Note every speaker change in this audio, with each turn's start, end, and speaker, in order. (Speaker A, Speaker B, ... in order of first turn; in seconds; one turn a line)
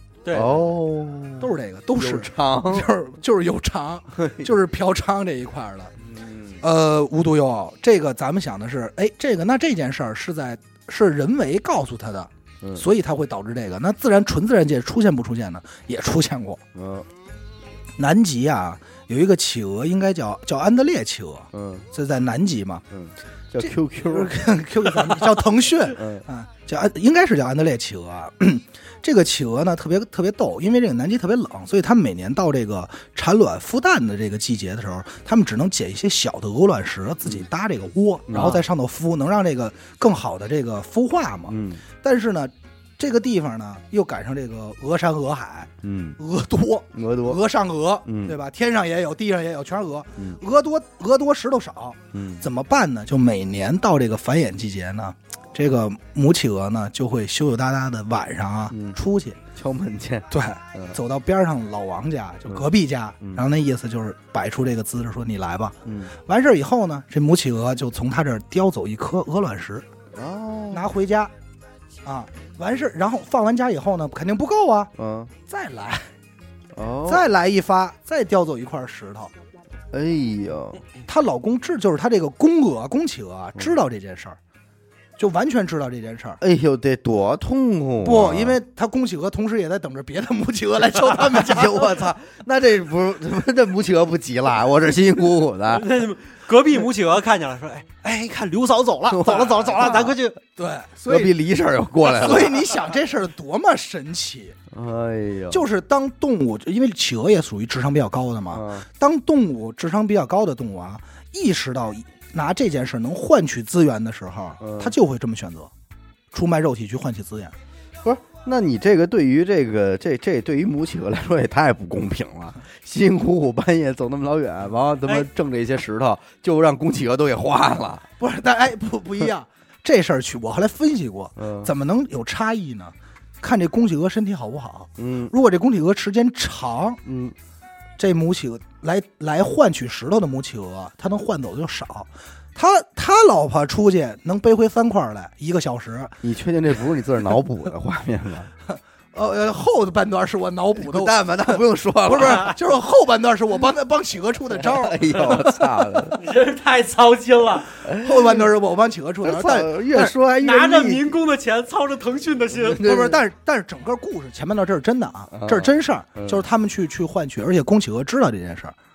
Speaker A: 0.2-0.6
Speaker B: 0.3-2.9
Speaker C: 1.4-5.9
Speaker B: 4.2-4.5
Speaker B: 6.0-6.6
Speaker C: 6.6-16.6
Speaker B: 12.6-12.9
Speaker B: 16.7-17.1
Speaker C: 18.0-22.8
Speaker B: 21.5-21.9
Speaker B: 22.9-24.4
Speaker C: 23.6-59.4
Speaker B: 25.9-26.2
Speaker B: 38.3-38.6
Speaker B: 41.5-41.8
Speaker B: 45.8-46.2
Speaker B: 46.9-47.4
Speaker B: 48.0-48.4
Speaker B: 52.1-52.5
Speaker B: 58.7-59.0
Speaker B: 59.5-61.0
Speaker C: 60.3-69.8
Speaker B: 65.8-66.1
Speaker B: 70.1-70.9
Speaker C: 70.7-71.3
Speaker C: 72.0-74.9
Speaker B: 75.0-75.3
Speaker C: 75.5-76.1
Speaker B: 76.7-77.3
Speaker C: 77.1-79.3
Speaker B: 79.9-80.8
Speaker C: 81.0-84.4
Speaker C: 85.2-86.4
Speaker B: 86.4-88.6
Speaker C: 88.0-92.1
Speaker B: 91.1-95.9
Speaker A: 95.7-100.4
Speaker B: 99.1-100.1
Speaker C: 100.5-101.4
Speaker B: 101.0-102.7
Speaker C: 102.0-104.5
Speaker B: 104.7-105.7
Speaker C: 105.5-115.7
Speaker B: 108.5-108.8
Speaker B: 114.6-115.0
Speaker C: 116.3-117.5
Speaker B: 118.0-128.1
Speaker C: 128.2-137.0
Speaker B: 131.4-131.7
Speaker B: 135.0-135.3
Speaker B: 137.0-137.3
Speaker C: 138.0-146.2
Speaker B: 146.2-148.5
Speaker C: 148.7-155.6
Speaker B: 150.8-152.6
Speaker B: 154.5-156.2
Speaker A: 156.1-157.7
Speaker B: 157.8-158.5
Speaker C: 157.9-160.2
Speaker B: 159.2-161.1
Speaker A: 160.4-162.8
Speaker B: 162.5-163.2
Speaker C: 162.7-168.7
Speaker B: 165.3-166.4